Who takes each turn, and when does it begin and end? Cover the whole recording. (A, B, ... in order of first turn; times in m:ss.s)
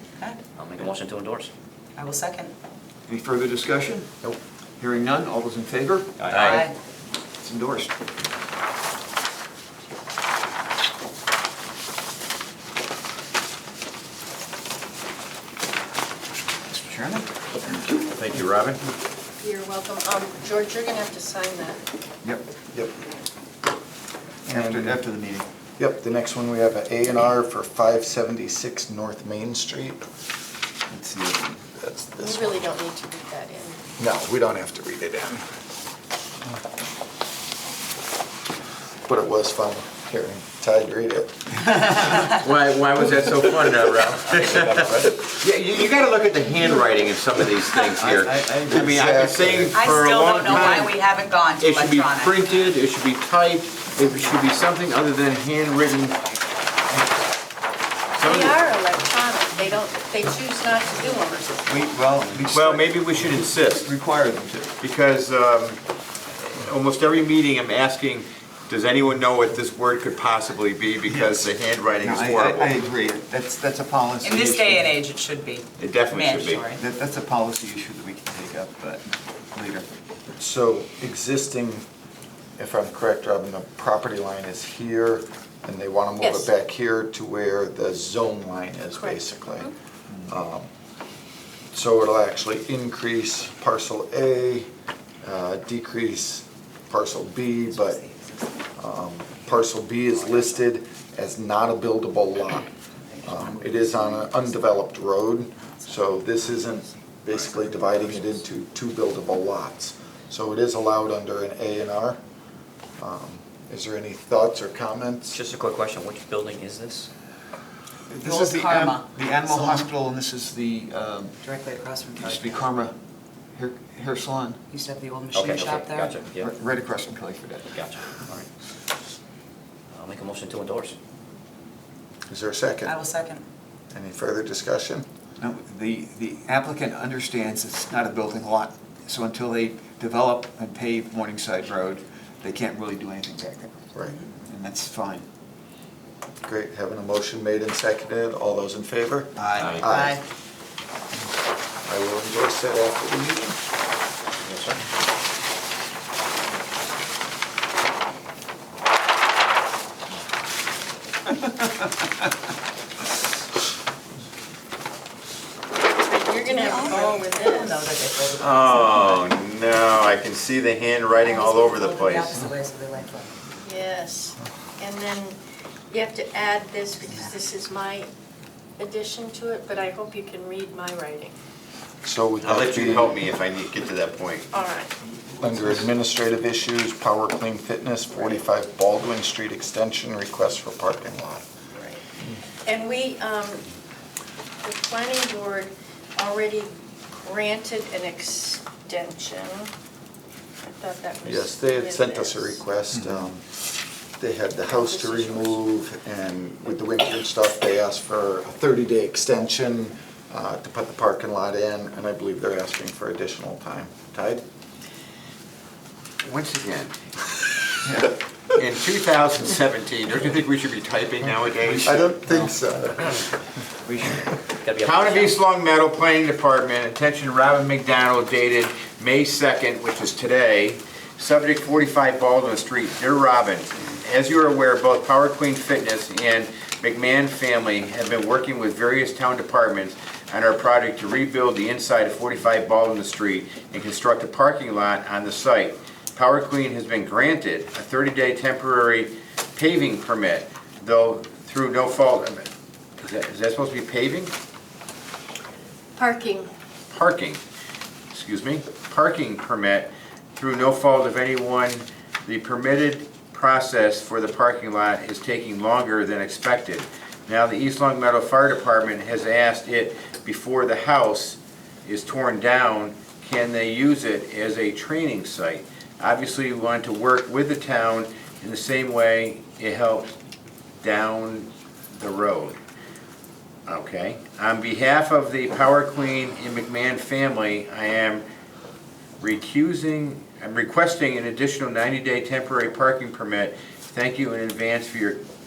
0:00.6-0:01.5 A
0:02.0-0:02.5 B
0:03.1-0:04.1 C
0:04.8-0:06.1 C
0:06.2-0:06.6 A
0:06.2-0:06.7 D
0:06.5-0:06.8 B
0:07.4-0:07.9 C
0:16.7-0:17.8 C
0:18.1-0:18.8 D
0:19.4-0:21.8 E
0:24.5-0:25.0 F
0:24.5-0:25.5 C
0:25.8-0:30.0 F
0:30.9-0:31.6 C
0:31.8-0:32.6 F
0:32.2-0:33.8 E
0:34.0-0:35.4 F
0:39.0-0:41.4 F
0:41.8-0:51.0 D
0:44.4-0:45.0 A
0:48.2-0:48.6 A
0:48.6-0:49.8 F
0:49.7-0:52.5 B
0:51.6-0:56.4 D
0:58.2-0:58.6 D
0:58.2-1:02.0 E
1:01.7-1:04.7 C
1:02.5-1:04.0 D
1:04.8-1:05.8 D
1:06.4-1:12.8 D
1:12.0-1:14.9 C
1:14.2-1:16.8 B
1:15.8-1:16.6 D
1:16.8-1:19.9 C
1:20.4-1:21.8 F
1:22.6-1:29.7 F
1:26.2-1:26.5 E
1:29.0-1:29.7 E
1:30.3-1:30.7 F
1:31.7-1:34.7 F
1:35.2-1:38.0 F
1:37.7-1:38.6 B
1:38.8-1:42.7 F
1:40.1-1:40.6 A
1:43.1-1:44.7 B
1:43.2-1:52.2 F
1:45.6-1:46.6 B
1:47.5-1:47.9 B
1:53.0-1:55.4 F
1:55.3-1:57.1 A
1:58.1-2:01.4 C
1:58.2-1:59.9 B
2:01.4-2:02.7 B
2:02.2-2:02.9 C
2:03.6-2:04.6 C
2:04.7-2:06.2 B
2:05.3-2:06.5 A
2:06.4-2:07.7 C
2:07.7-2:08.5 A
2:09.9-2:11.0 A
2:12.3-2:12.9 F
2:12.8-2:13.4 B
2:13.9-2:15.0 F
2:15.4-2:23.8 C
2:24.4-2:25.2 C
2:26.4-2:30.2 F
2:29.4-2:29.7 C
2:29.8-2:30.2 B
2:31.8-2:33.6 F
2:45.8-2:47.8 E
2:46.4-2:49.3 B
2:48.4-2:52.4 D
2:51.2-2:53.3 B
2:53.6-2:55.4 E
2:55.9-2:58.1 E
2:58.8-3:01.4 E
3:02.0-3:03.2 F
3:02.4-3:04.5 D
3:04.5-3:04.9 E
3:05.4-3:11.4 F
3:08.1-3:08.4 E
3:11.7-3:12.0 E
3:12.6-3:13.6 E
3:14.6-3:19.7 E
3:20.8-3:22.6 E
3:21.2-3:23.5 F
3:24.2-3:34.4 F
3:24.7-3:25.6 E
3:36.2-3:37.0 D
3:37.8-3:38.2 C
3:38.6-3:42.1 D
3:41.8-3:43.2 F
3:44.6-3:45.4 A
3:44.8-4:12.5 D
4:13.0-4:14.3 D
4:16.0-4:16.5 E
4:16.9-4:17.4 D
4:18.1-4:40.1 D
4:40.8-4:42.6 D
4:43.7-4:48.2 D
4:49.2-4:55.2 D